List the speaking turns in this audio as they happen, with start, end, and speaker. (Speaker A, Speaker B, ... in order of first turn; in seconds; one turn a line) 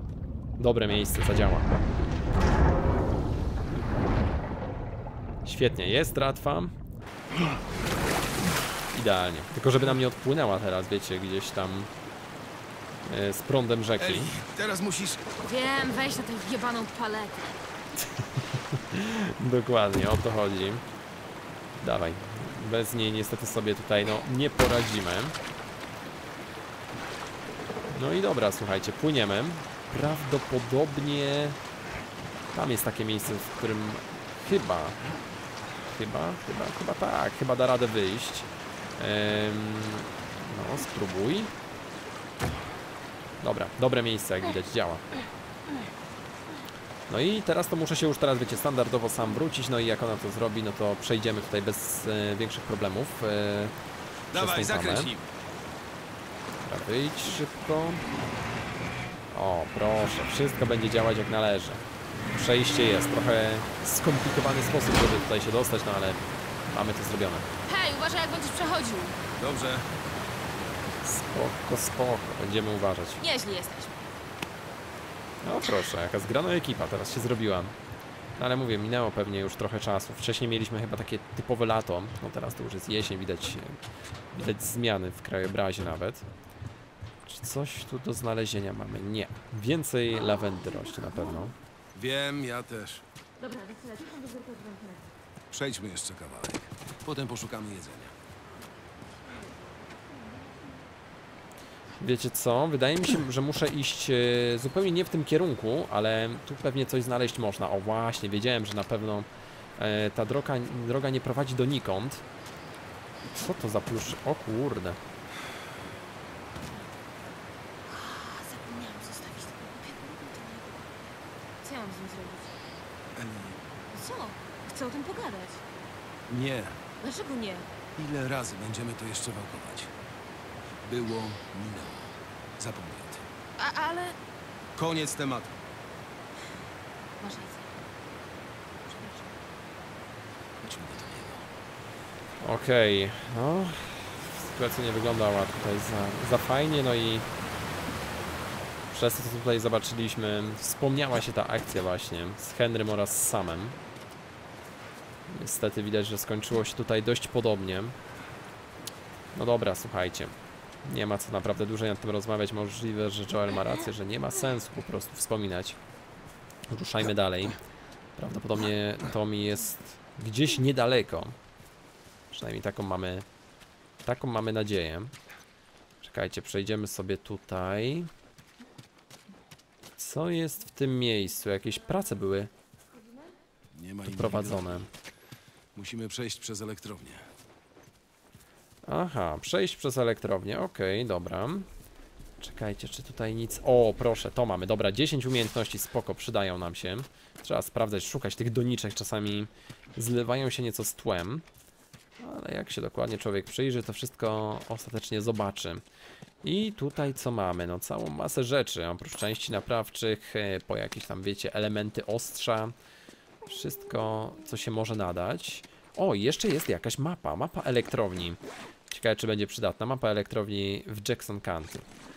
Speaker A: 0.6-1.8
Speaker A: 5.4-6.7
Speaker A: 8.9-11.9
Speaker A: 13.0-14.3
Speaker B: 14.0-15.2
Speaker C: 15.4-17.6
Speaker A: 18.0-20.8
Speaker A: 21.8-25.4
Speaker A: 27.9-31.6
Speaker A: 32.5-35.0
Speaker A: 35.9-41.5
Speaker A: 43.4-45.0
Speaker A: 47.1-53.7
Speaker B: 54.3-55.3
Speaker A: 54.3-55.1
Speaker A: 56.6-58.0
Speaker A: 59.3-67.5
Speaker C: 67.7-69.2
Speaker B: 69.4-69.9
Speaker A: 71.0-73.2
Speaker C: 73.2-74.1
Speaker A: 75.4-77.7
Speaker A: 78.4-83.8
Speaker A: 84.3-86.2
Speaker A: 87.2-91.5
Speaker B: 91.9-93.0
Speaker C: 93.4-95.0
Speaker B: 95.5-98.1
Speaker A: 102.0-112.2
Speaker A: 113.3-115.0
Speaker C: 117.8-121.0
Speaker C: 121.6-122.6
Speaker B: 123.2-123.6
Speaker C: 123.9-125.6
Speaker B: 126.3-126.8
Speaker C: 127.0-127.7
Speaker B: 127.9-129.9
Speaker B: 130.8-133.2
Speaker C: 133.6-134.2
Speaker B: 134.7-135.5
Speaker C: 137.2-137.7
Speaker C: 138.8-139.3
Speaker B: 140.6-141.5
Speaker A: 142.4-147.3
Speaker A: 148.9-153.8
Speaker A: 155.3-157.9
Speaker A: 159.3-160.3
Speaker A: 160.8-165.8
Speaker A: 166.7-167.6
Speaker A: 168.2-171.3
Speaker A: 172.3-173.2
Speaker A: 174.0-175.1
Speaker A: 176.0-178.1
Speaker A: 180.0-182.5
Speaker B: 183.7-184.8
Speaker A: 184.1-184.9
Speaker B: 185.7-187.3
Speaker A: 188.8-191.7
Speaker A: 192.4-201.4
Speaker A: 202.2-205.8
Speaker A: 206.4-212.7
Speaker A: 213.4-218.4
Speaker A: 218.9-221.8